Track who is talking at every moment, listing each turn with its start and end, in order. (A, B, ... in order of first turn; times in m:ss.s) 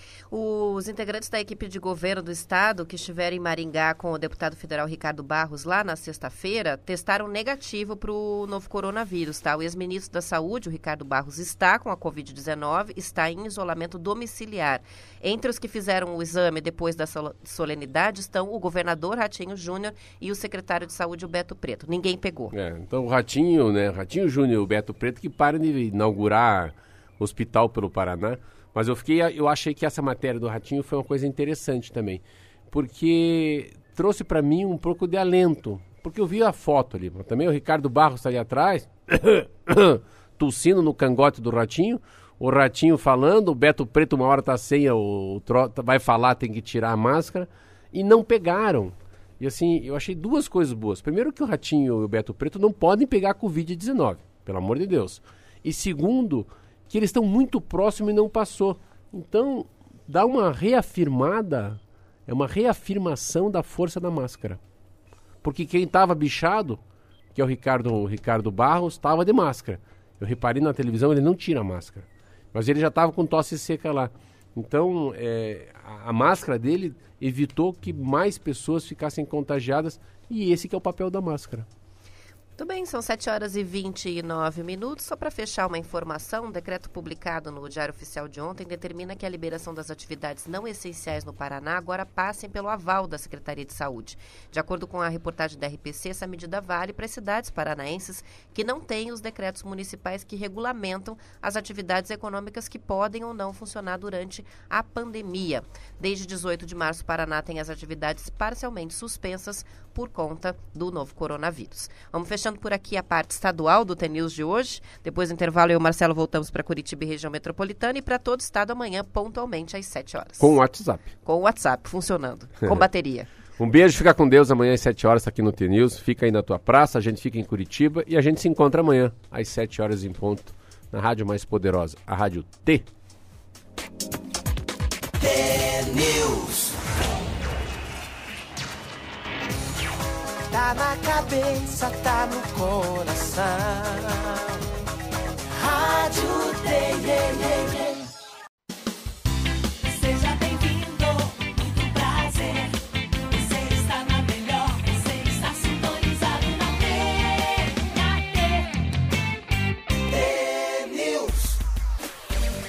0:00.3-0:22.5 A
0:22.5-1:04.6 B
1:05.4-1:06.8 B
1:07.3-1:21.7 B
1:22.6-2:00.6 A
2:00.4-2:01.1 B
2:01.2-2:03.3 A
2:03.6-2:12.9 B
2:15.2-2:16.8 C
2:20.5-2:24.5 C
2:25.5-2:28.1 C
2:29.8-2:32.8 C
2:33.3-2:38.7 C
2:40.1-2:41.6 C